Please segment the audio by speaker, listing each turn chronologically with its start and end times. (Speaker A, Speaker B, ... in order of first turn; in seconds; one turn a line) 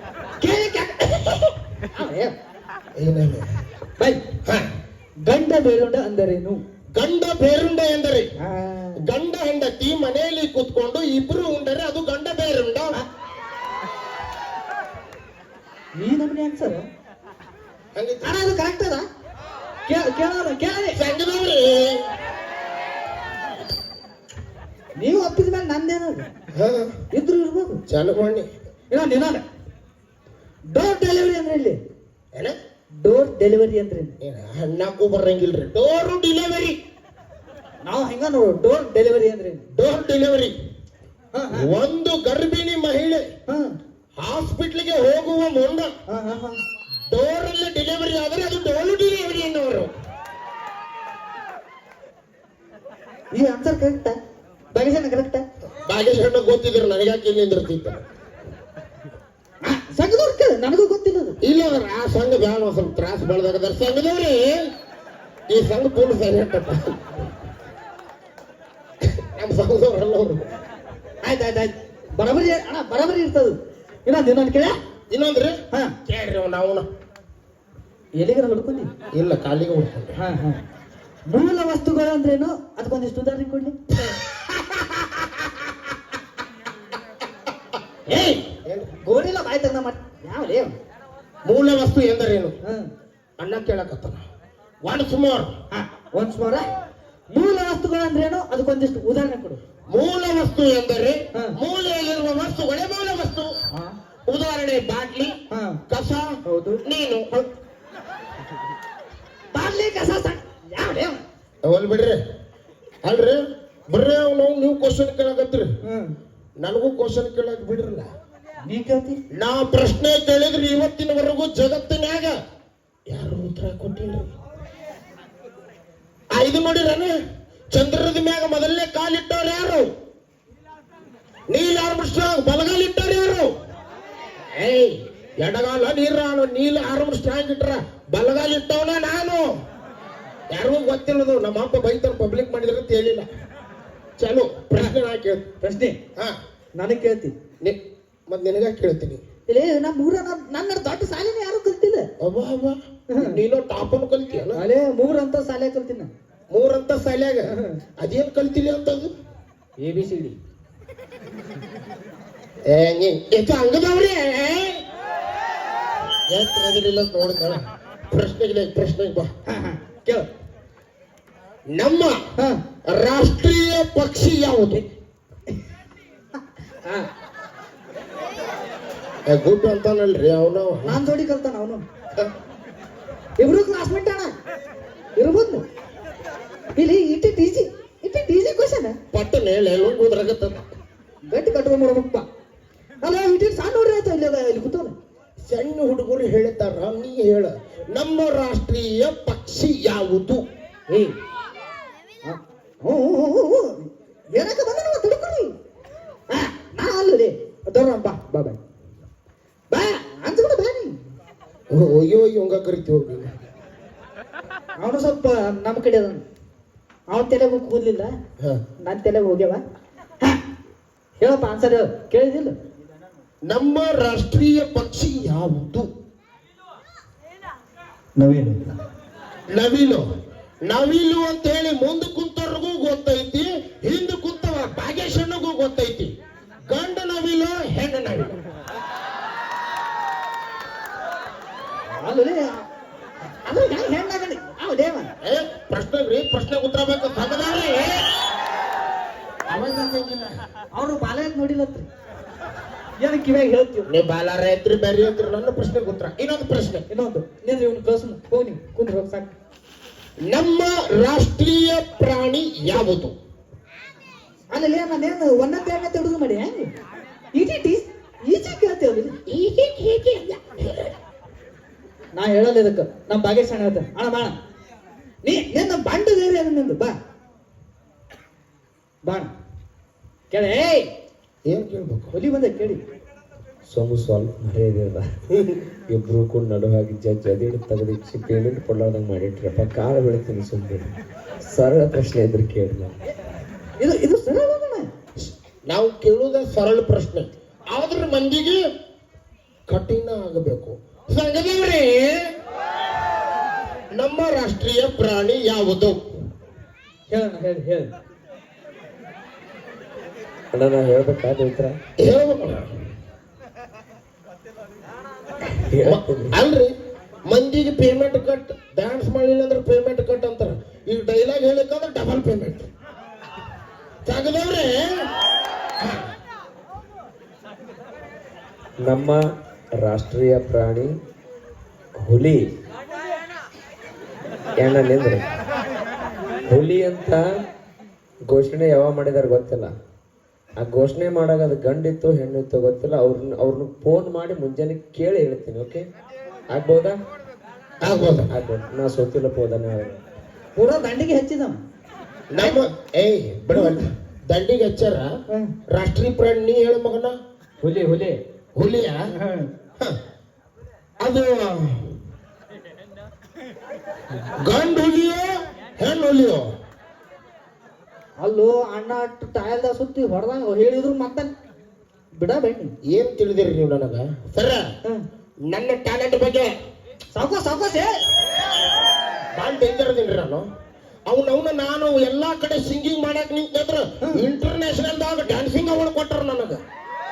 Speaker A: 0.4-2.3
Speaker B: 3.0-3.5
Speaker A: 4.0-4.2
Speaker A: 5.3-6.6
Speaker B: 7.0-8.3
Speaker A: 8.4-9.1
Speaker B: 9.0-13.0
Speaker A: 16.0-16.9
Speaker B: 17.9-18.4
Speaker A: 18.2-19.1
Speaker A: 19.9-21.0
Speaker B: 20.9-22.1
Speaker A: 25.0-26.3
Speaker B: 26.5-26.9
Speaker A: 27.1-27.8
Speaker B: 27.9-28.5
Speaker A: 28.9-29.4
Speaker A: 30.7-31.8
Speaker A: 33.0-34.2
Speaker B: 34.2-36.8
Speaker A: 37.9-39.6
Speaker B: 39.7-40.5
Speaker A: 41.3-41.7
Speaker B: 41.5-43.3
Speaker A: 43.5-43.7
Speaker B: 44.2-45.9
Speaker A: 46.1-46.6
Speaker B: 47.1-49.9
Speaker A: 53.3-54.2
Speaker A: 54.7-55.4
Speaker B: 55.9-58.0
Speaker A: 59.6-61.4
Speaker B: 61.4-64.7
Speaker B: 65.5-67.2
Speaker B: 69.2-70.5
Speaker A: 71.2-74.8
Speaker B: 75.1-76.9
Speaker A: 78.2-78.9
Speaker B: 79.1-80.2
Speaker A: 80.2-80.6
Speaker A: 81.3-83.8
Speaker B: 84.8-85.0
Speaker B: 88.1-88.9
Speaker A: 89.0-90.8
Speaker B: 91.5-92.6
Speaker A: 92.6-92.9
Speaker B: 93.4-94.2
Speaker B: 94.8-95.5
Speaker A: 95.7-96.7
Speaker A: 97.3-99.6
Speaker B: 99.9-103.5
Speaker B: 104.3-105.4
Speaker A: 105.5-105.8
Speaker B: 105.9-106.3
Speaker A: 106.5-106.8
Speaker B: 106.9-107.5
Speaker A: 109.5-111.2
Speaker B: 111.6-112.2
Speaker B: 113.0-115.7
Speaker A: 115.8-116.1
Speaker B: 116.6-118.1
Speaker A: 118.7-119.2
Speaker B: 119.3-122.4
Speaker B: 123.1-124.3
Speaker B: 126.3-127.1
Speaker B: 127.7-129.9
Speaker B: 131.5-133.5
Speaker B: 134.6-139.5
Speaker B: 140.5-143.3
Speaker B: 144.2-145.5
Speaker A: 145.6-146.0
Speaker A: 146.8-147.3
Speaker B: 147.6-149.2
Speaker A: 149.5-152.1
Speaker B: 152.2-154.6
Speaker A: 153.1-153.4
Speaker A: 154.5-156.1
Speaker B: 156.5-159.1
Speaker A: 157.5-157.8
Speaker A: 159.8-160.4
Speaker B: 162.7-164.8
Speaker B: 166.3-169.3
Speaker A: 169.5-170.3
Speaker B: 171.7-172.2
Speaker B: 172.9-174.8
Speaker B: 179.3-181.0
Speaker A: 180.8-181.8
Speaker A: 183.4-184.3
Speaker A: 185.2-185.6
Speaker A: 186.8-189.0
Speaker B: 189.1-190.7
Speaker A: 191.3-192.2
Speaker A: 193.0-194.9
Speaker B: 195.5-200.4
Speaker A: 200.9-201.2
Speaker A: 202.2-205.6
Speaker A: 206.3-208.6
Speaker A: 209.7-211.0
Speaker B: 211.7-213.3
Speaker A: 214.8-216.2
Speaker A: 217.1-218.1
Speaker A: 218.8-219.6
Speaker A: 221.2-222.6
Speaker B: 223.5-225.9
Speaker A: 228.2-228.7
Speaker B: 229.5-230.1
Speaker B: 230.7-236.1
Speaker B: 236.7-238.4
Speaker A: 241.9-242.6
Speaker A: 243.4-245.1
Speaker B: 245.2-248.1
Speaker B: 249.5-250.4
Speaker A: 250.7-251.9
Speaker A: 253.0-253.9
Speaker B: 253.9-256.8
Speaker A: 256.9-259.3
Speaker B: 260.2-263.1
Speaker A: 264.5-266.7
Speaker A: 267.3-269.2
Speaker B: 269.3-270.9
Speaker A: 272.1-274.4
Speaker A: 275.2-276.9
Speaker A: 279.1-279.3
Speaker A: 280.3-280.9
Speaker B: 281.5-282.1
Speaker A: 282.1-282.8
Speaker C: 283.7-285.1
Speaker B: 285.3-285.6
Speaker C: 285.9-290.9
Speaker C: 291.4-292.9
Speaker A: 293.8-294.9
Speaker B: 295.7-298.6
Speaker B: 299.7-302.3
Speaker B: 303.9-306.0
Speaker A: 307.1-307.9
Speaker C: 310.5-311.8
Speaker B: 312.0-312.7
Speaker C: 315.4-316.4
Speaker B: 315.8-316.7
Speaker B: 317.3-322.7
Speaker B: 324.1-325.0
Speaker C: 328.8-329.2
Speaker C: 329.8-330.9
Speaker C: 332.0-332.5
Speaker C: 334.6-335.2
Speaker C: 336.5-337.2
Speaker C: 338.2-339.7
Speaker C: 340.6-345.9
Speaker C: 346.5-347.0
Speaker B: 347.8-348.4
Speaker C: 348.3-350.0
Speaker A: 350.6-351.6
Speaker B: 352.3-355.1
Speaker A: 353.5-353.8
Speaker B: 355.7-357.1
Speaker A: 357.6-358.2
Speaker B: 358.6-359.1
Speaker A: 359.1-359.5
Speaker B: 361.0-362.0
Speaker B: 364.4-366.5
Speaker A: 368.2-371.3
Speaker A: 372.1-372.7
Speaker B: 372.9-374.6
Speaker B: 375.5-376.5
Speaker A: 377.1-377.9
Speaker B: 379.4-380.5
Speaker B: 381.1-386.6